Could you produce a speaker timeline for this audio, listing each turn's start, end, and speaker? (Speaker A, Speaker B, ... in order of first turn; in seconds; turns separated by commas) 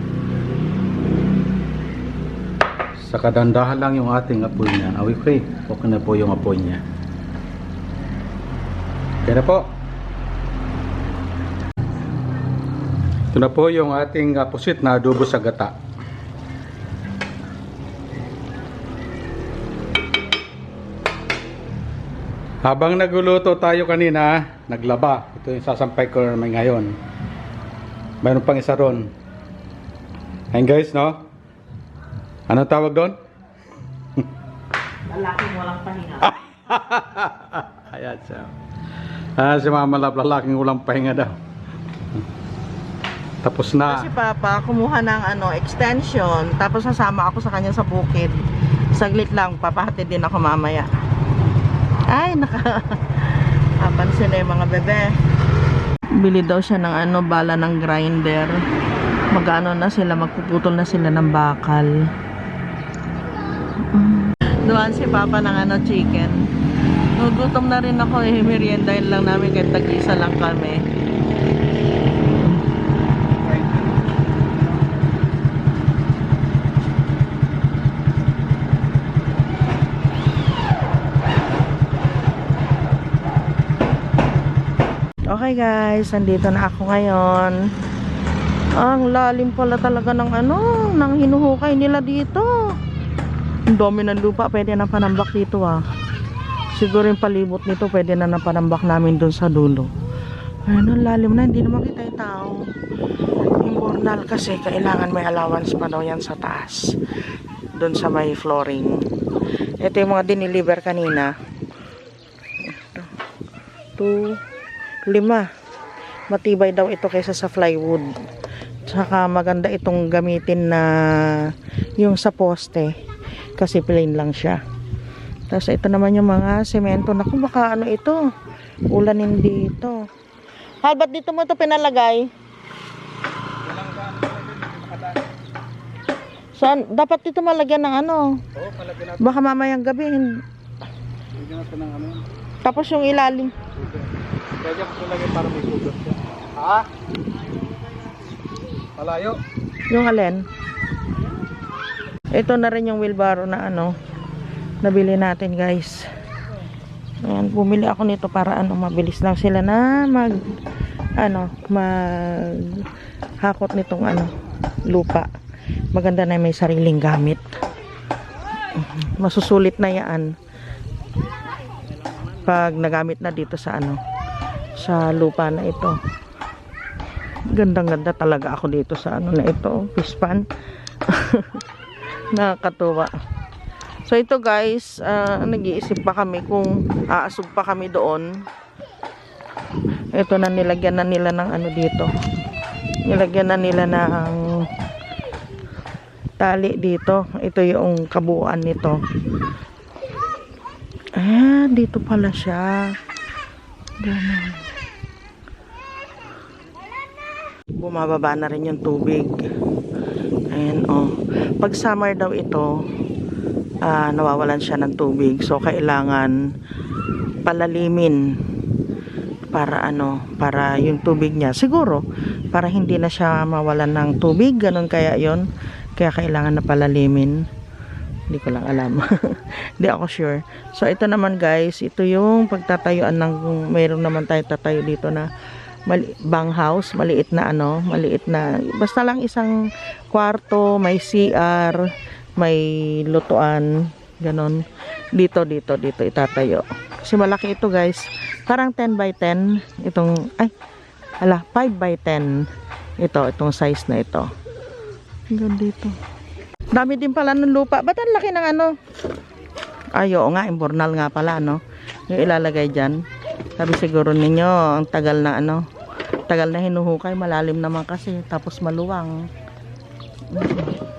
Speaker A: 3.0-6.8, Speaker A: 9.2-9.7, Speaker A: 13.3-15.8, Speaker A: 22.6-27.0, Speaker A: 28.2-29.1, Speaker A: 30.5-31.2, Speaker A: 32.5-33.2, Speaker B: 35.1-36.4, Speaker A: 36.5-38.5, Speaker A: 39.4-41.4, Speaker A: 43.4-44.1, Speaker B: 43.9-48.4, Speaker B: 48.9-50.9, Speaker B: 52.1-55.1, Speaker B: 56.2-58.6, Speaker B: 59.3-62.0, Speaker B: 63.8-66.4, Speaker B: 67.2-70.8, Speaker A: 73.4-74.0, Speaker B: 85.3-87.6, Speaker B: 88.8-92.8, Speaker B: 93.7-95.8, Speaker B: 96.7-99.9, Speaker B: 100.7-102.7, Speaker B: 103.6-106.9, Speaker B: 107.8-109.1, Speaker B: 109.8-111.3, Speaker B: 112.8-113.1, Speaker B: 114.0-114.4, Speaker B: 115.1-115.5, Speaker B: 116.3-118.2, Speaker B: 118.9-122.9, Speaker B: 123.6-124.6, Speaker B: 125.5-128.2, Speaker B: 128.9-130.0, Speaker B: 130.8-132.3, Speaker A: 133.6-135.2, Speaker B: 136.6-138.4, Speaker A: 138.6-139.2, Speaker B: 139.2-140.4, Speaker A: 141.4-142.2, Speaker B: 142.7-143.6, Speaker A: 143.8-144.0, Speaker A: 144.6-146.9, Speaker A: 149.0-149.4, Speaker B: 149.9-150.4, Speaker B: 152.3-153.9, Speaker B: 154.8-156.1, Speaker B: 157.2-160.4, Speaker B: 161.2-162.8, Speaker B: 163.4-164.3, Speaker B: 164.9-165.3, Speaker B: 165.9-167.4, Speaker B: 168.8-170.3, Speaker B: 172.4-174.0, Speaker B: 174.8-176.0, Speaker B: 177.5-180.4, Speaker B: 181.1-181.6, Speaker B: 182.3-183.1, Speaker B: 184.1-188.3, Speaker B: 190.1-192.1, Speaker B: 193.1-194.7, Speaker B: 196.4-199.0, Speaker B: 201.2-202.9, Speaker B: 204.0-204.7, Speaker B: 207.8-209.5, Speaker B: 210.5-212.7, Speaker B: 213.8-216.3, Speaker B: 217.5-218.2, Speaker B: 219.5-225.5, Speaker B: 226.0-227.4, Speaker B: 228.3-229.1, Speaker B: 229.8-235.3, Speaker B: 235.9-239.6, Speaker B: 240.1-244.6, Speaker B: 245.2-250.5, Speaker B: 251.2-252.4, Speaker B: 253.0-254.3, Speaker B: 255.3-256.0, Speaker B: 256.7-258.8, Speaker B: 260.0-263.0, Speaker B: 263.6-265.7, Speaker B: 266.3-269.2, Speaker B: 270.3-270.7